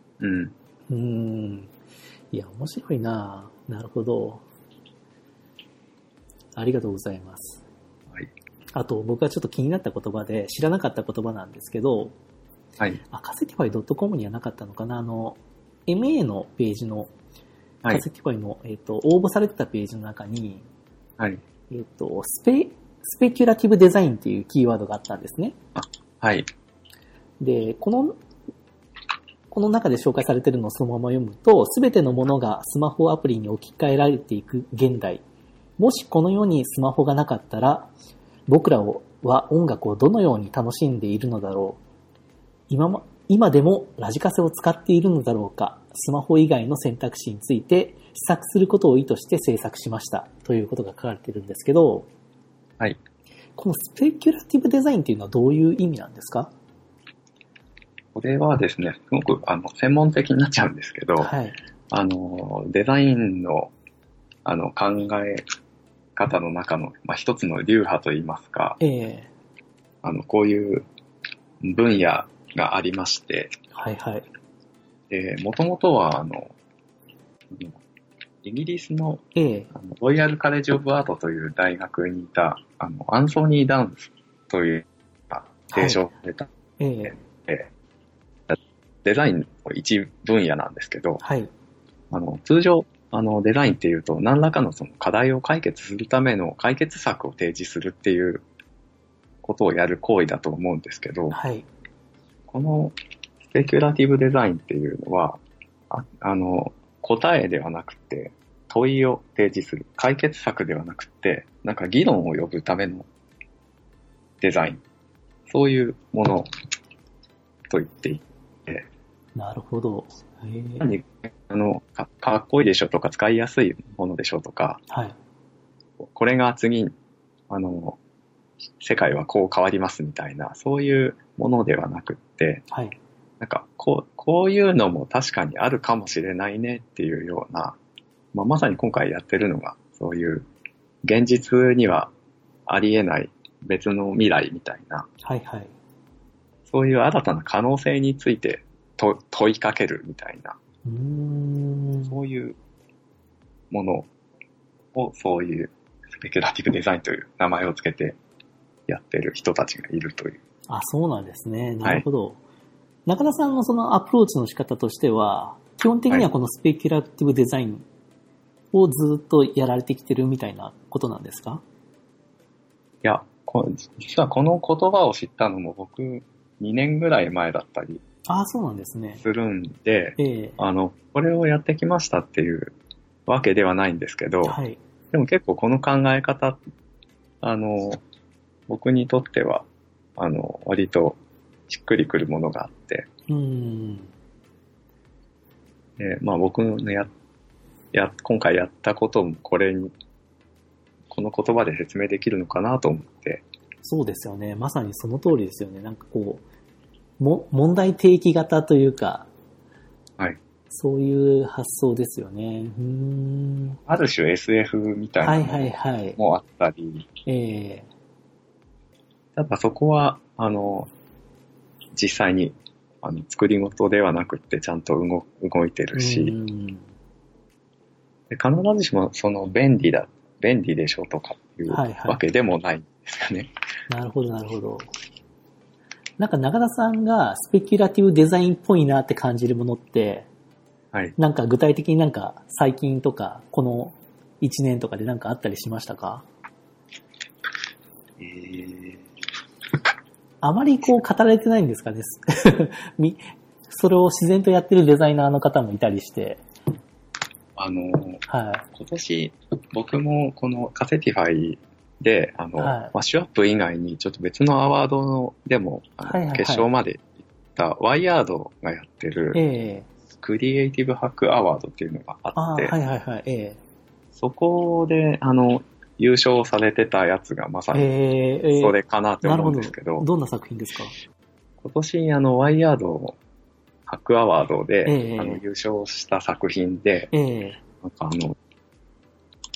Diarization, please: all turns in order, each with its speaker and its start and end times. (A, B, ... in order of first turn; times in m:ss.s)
0:00.2-0:00.5 A
0:00.9-0:01.7 B
0:02.3-0:04.4 B
0:06.6-0:07.6 B
0:08.7-0:12.2 B
0:13.1-0:17.1 B
0:17.9-0:20.6 B
0:21.7-0:25.6 B
0:25.8-0:26.5 A
0:27.4-0:28.2 B
0:29.5-0:35.2 B
0:35.8-0:37.9 B
0:38.5-0:41.8 B
0:42.7-0:52.1 B
0:53.6-0:56.5 B
0:58.2-1:01.3 A
1:01.2-1:01.6 B
1:01.9-1:03.7 A
1:04.4-1:05.4 A
1:06.2-1:08.8 A
1:08.8-1:09.3 B
1:10.0-1:10.9 A
1:11.6-1:13.5 A
1:13.7-1:14.3 B
1:15.1-1:16.5 A
1:17.5-1:17.8 A
1:18.4-1:26.5 A
1:19.4-1:19.7 B
1:25.7-1:26.1 B
1:26.8-1:27.2 B
1:27.1-1:27.7 A
1:28.5-1:31.2 A
1:31.2-1:31.5 B
1:32.1-1:38.4 A
1:39.4-1:41.4 A
1:41.3-1:41.7 B
1:42.5-1:53.1 A
1:54.4-1:54.8 A
1:55.5-1:56.5 A
1:57.7-1:58.9 A
1:59.4-2:00.9 B
2:00.8-2:04.8 A
2:04.9-2:05.2 B
2:06.0-2:07.0 A
2:07.5-2:08.0 A
2:08.8-2:12.6 A
2:12.7-2:13.0 B
2:13.4-2:17.8 A
2:18.3-2:20.5 A
2:21.0-2:22.1 A
2:22.7-2:25.1 A
2:25.2-2:25.7 B
2:26.7-2:30.6 A
2:30.8-2:32.2 B
2:32.1-2:32.6 A
2:33.7-2:34.1 A
2:34.9-2:38.2 A
2:38.9-2:40.4 A
2:40.7-2:42.4 B
2:43.1-2:47.8 B
2:48.7-2:51.6 B
2:53.0-2:58.0 A
2:58.3-2:59.2 B
2:59.2-3:02.7 A
3:00.2-3:00.6 B
3:03.3-3:04.6 A
3:04.4-3:04.8 B
3:05.1-3:06.6 A
3:07.4-3:08.0 A
3:08.7-3:09.7 A
3:10.2-3:11.2 A
3:11.7-3:13.1 A
3:13.3-3:14.1 B
3:16.0-3:17.1 A
3:17.9-3:19.9 A
3:21.1-3:23.4 A
3:23.8-3:26.4 B
3:27.2-3:29.3 B
3:30.7-3:33.8 B
3:33.9-3:37.1 A
3:35.2-3:36.2 B
3:37.3-3:37.9 B
3:39.4-3:40.9 A
3:42.0-3:46.4 A
3:46.0-3:46.8 B
3:48.3-3:53.5 A
3:51.7-3:52.2 B
3:53.9-3:54.9 B
3:56.2-4:00.3 B
4:01.2-4:06.2 B
4:08.2-4:09.0 A
4:10.4-4:16.4 B
4:17.6-4:29.4 A
4:18.3-4:18.7 B
4:22.6-4:22.9 B
4:26.0-4:26.7 B
4:29.3-4:29.9 B
4:30.2-4:32.8 A
4:32.4-4:33.6 B
4:34.2-4:37.9 A
4:37.7-4:40.9 B
4:38.6-4:40.1 A
4:41.6-4:43.2 A
4:43.9-4:47.1 A
4:44.9-4:45.4 B
4:47.1-4:47.6 B
4:47.8-4:48.4 A